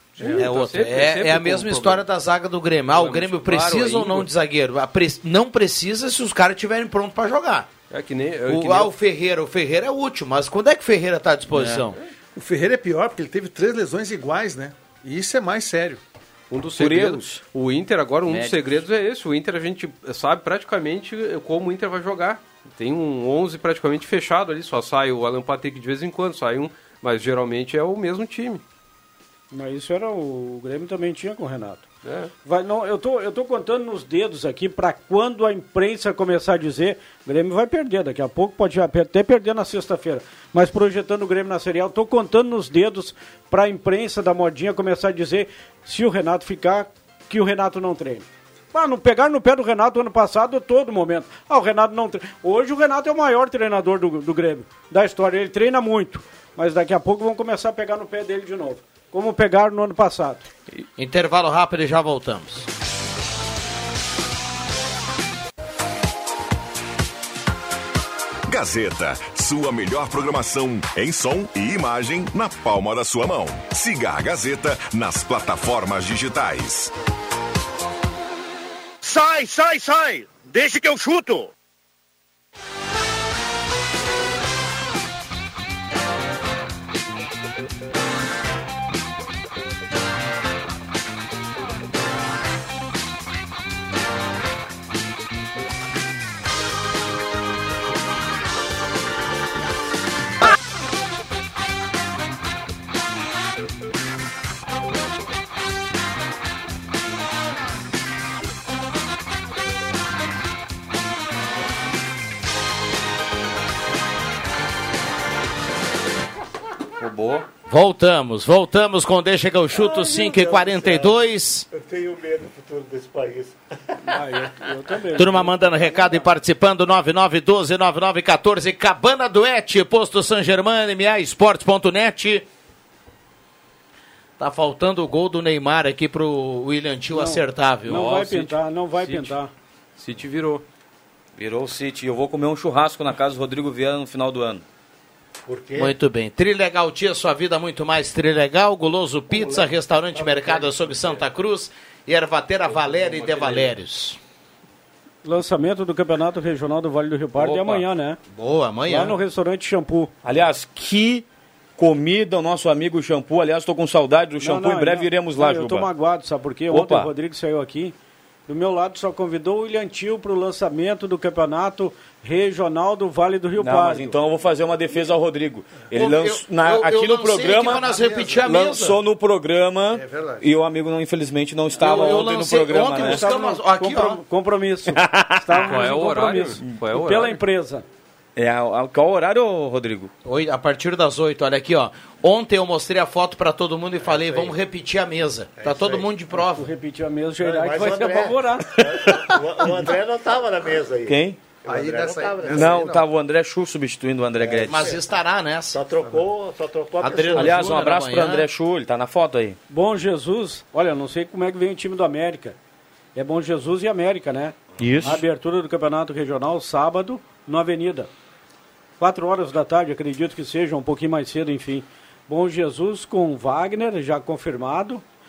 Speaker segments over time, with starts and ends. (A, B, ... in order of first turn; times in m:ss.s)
0:00.2-0:00.5 A
0:00.2-0:02.1 B
0:00.4-0:07.7 C
0:02.9-0:04.3 B
0:07.9-0:08.9 B
0:08.4-0:12.0 C
0:11.5-0:11.9 D
0:12.3-0:16.0 A
0:16.5-0:28.6 B
0:16.7-0:17.4 D
0:18.2-0:18.8 D
0:29.5-0:31.9 E
0:32.0-0:32.3 B
0:32.4-1:00.4 E
1:01.0-1:02.7 C
1:08.5-1:16.9 F
1:19.0-1:21.5 G
1:57.0-1:57.5 D
1:57.7-2:01.7 C
1:59.7-2:04.7 H
2:04.0-2:06.1 E
2:05.1-2:12.4 C
2:14.4-2:18.1 C
2:17.1-2:19.5 E
2:17.9-2:19.4 B
2:20.0-2:20.6 B
2:21.4-2:24.6 D
2:25.4-2:26.0 H
2:25.8-2:34.2 C
2:29.3-2:29.7 H
2:30.2-2:30.7 H
2:33.2-2:33.6 B
2:35.2-2:38.2 E
2:37.4-2:37.8 B
2:38.3-2:39.2 C
2:38.9-2:40.1 E
2:40.2-2:41.2 D
2:41.8-2:45.9 D
2:44.4-2:47.9 E
2:46.7-2:47.1 D
2:48.5-2:54.2 E
2:53.6-2:57.9 D
2:55.9-2:59.0 C
2:57.9-2:58.3 A
2:58.4-3:03.2 D
2:59.9-3:00.5 A
3:01.7-3:04.2 C
3:01.8-3:02.2 E
3:02.9-3:07.8 E
3:04.9-3:05.8 D
3:05.6-3:07.4 B
3:08.4-3:10.1 D
3:10.2-3:16.7 C
3:14.0-3:14.6 H
3:15.6-3:16.1 H
3:16.3-3:19.1 E
3:17.4-3:22.8 H
3:19.0-3:19.8 D
3:21.0-3:21.4 D
3:21.6-3:23.1 A
3:22.5-3:24.9 D
3:24.4-3:25.0 H
3:24.6-3:25.8 C
3:25.7-3:27.5 H
3:27.0-3:28.5 C
3:27.3-3:29.6 D
3:29.7-3:32.6 E
3:33.1-3:38.1 E
3:34.8-3:35.2 D
3:39.0-3:45.0 E